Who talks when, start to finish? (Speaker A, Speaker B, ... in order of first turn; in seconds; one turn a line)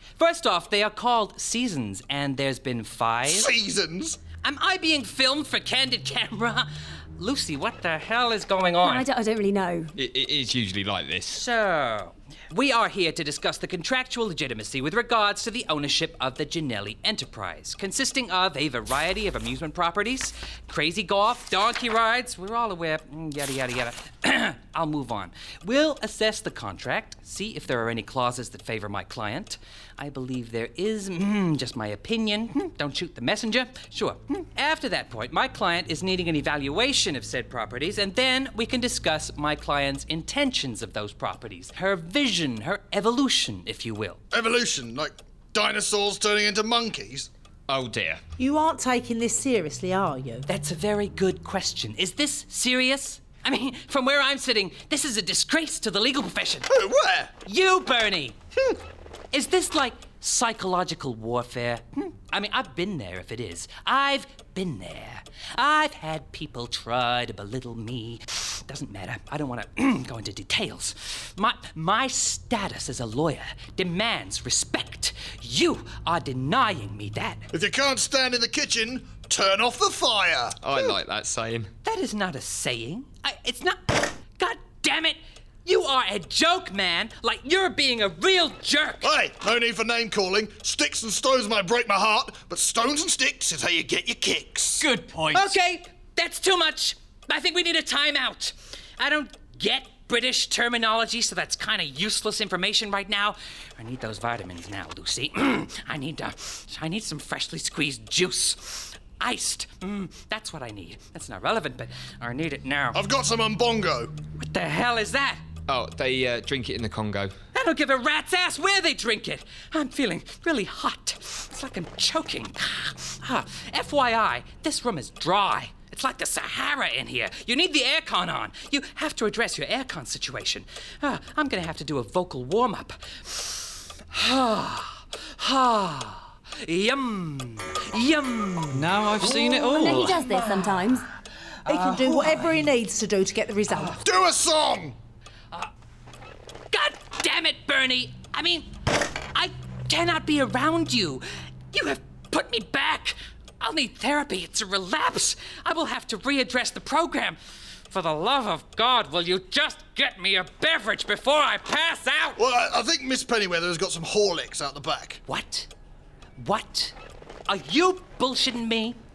Speaker A: 0.2-3.5
Speaker B: 3.2-4.2
Speaker A: 4.4-9.1
Speaker C: 8.8-9.9
Speaker D: 9.9-11.4
Speaker A: 11.3-44.2
Speaker B: 44.3-47.3
Speaker D: 47.7-48.2
Speaker E: 48.4-50.5
Speaker A: 50.5-56.7
Speaker B: 56.7-57.3
Speaker A: 57.4-58.4
Speaker A: 59.3-77.5
Speaker B: 77.5-80.9
Speaker D: 80.6-81.7
Speaker A: 81.8-89.1
Speaker B: 89.0-94.9
Speaker F: 94.8-95.5
Speaker A: 95.3-113.0
Speaker B: 112.9-114.1
Speaker A: 114.4-115.5
Speaker D: 115.7-117.3
Speaker A: 117.5-140.9
Speaker F: 138.7-140.2
Speaker C: 139.2-141.1
Speaker A: 141.7-142.6
Speaker E: 141.7-144.0
Speaker A: 143.7-144.0
Speaker B: 144.0-144.9
Speaker A: 146.7-162.4
Speaker B: 162.4-165.2
Speaker A: 165.3-165.7
Speaker A: 166.4-166.9
Speaker A: 167.5-169.0